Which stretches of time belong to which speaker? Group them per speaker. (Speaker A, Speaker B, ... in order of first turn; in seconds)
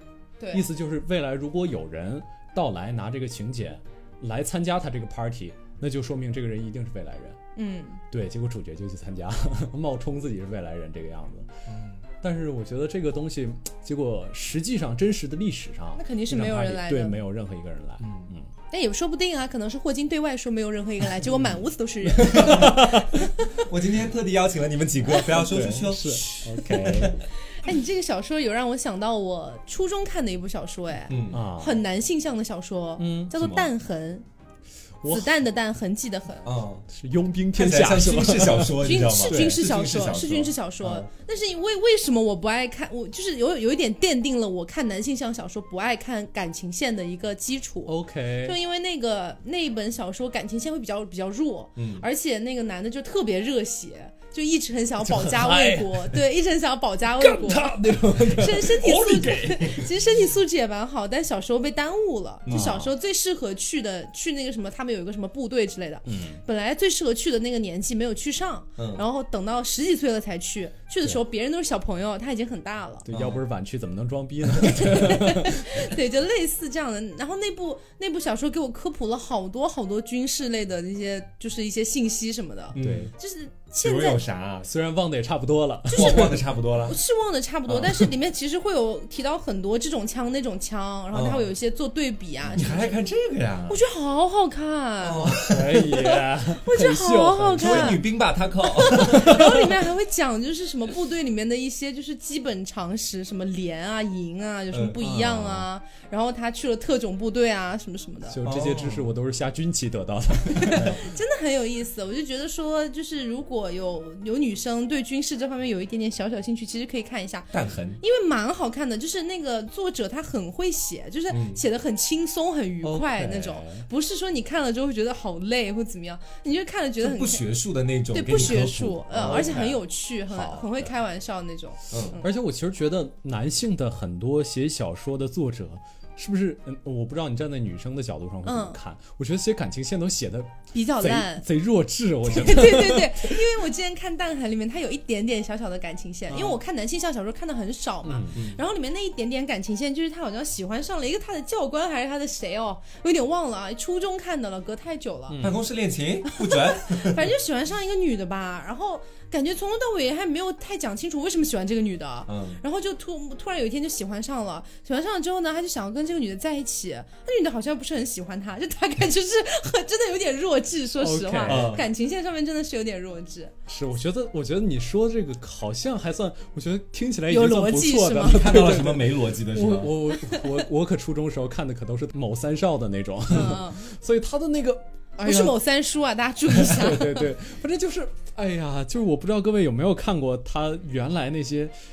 Speaker A: 0.4-0.6, 7.5-8.0, 15.9-17.2, 18.7-23.5, 27.5-34.2, 35.1-36.5, 38.8-73.1, 74.6-84.2, 86.0-86.2, 86.8-92.9, 93.7-95.4, 96.0-98.0, 98.6-108.4, 110.5-117.5, 118.0-127.4, 128.1-132.3, 138.4-138.8, 140.7-141.4, 142.3-155.4, 156.2-173.5, 177.3-178.6, 183.3-183.8, 185.2-187.3
Speaker B: 0.5-7.4, 8.1-11.5, 12.2-18.5, 22.1-23.2, 25.2-27.2, 31.3-31.8, 33.0-33.4, 35.0-35.3, 36.9-39.6, 47.9-48.6, 55.1-56.2, 57.2-59.3, 62.5-62.9, 66.0-66.4, 73.0-75.8, 82.8-83.1, 84.6-86.4, 95.5-98.0, 99.1-99.4, 105.0-105.7, 108.3-111.0, 122.8-123.9, 129.2-129.6, 130.3-130.9, 132.2-143.4, 148.0-148.4, 155.3-155.7, 171.0-171.8, 173.7-185.6, 186.5-191.7
Speaker C: 11.7-12.0, 18.0-18.3, 22.3-22.8, 23.6-27.2, 31.1-31.4, 33.4-33.7, 36.4-36.8, 37.5-41.0, 51.8-52.0, 58.8-59.9, 62.5-62.9, 68.8-69.0, 73.1-73.4, 82.7-83.1, 83.8-84.7, 85.9-87.0, 87.7-88.1, 91.1-91.5, 92.5-93.8, 95.0-95.8, 97.6-99.4, 104.7-105.0, 108.4-109.1, 110.7-111.0, 117.5-118.0, 121.3-121.6, 127.0-129.8, 131.9-132.2, 148.3-148.6, 155.4-157.2, 162.3-162.6, 171.4-171.9, 178.3-179.9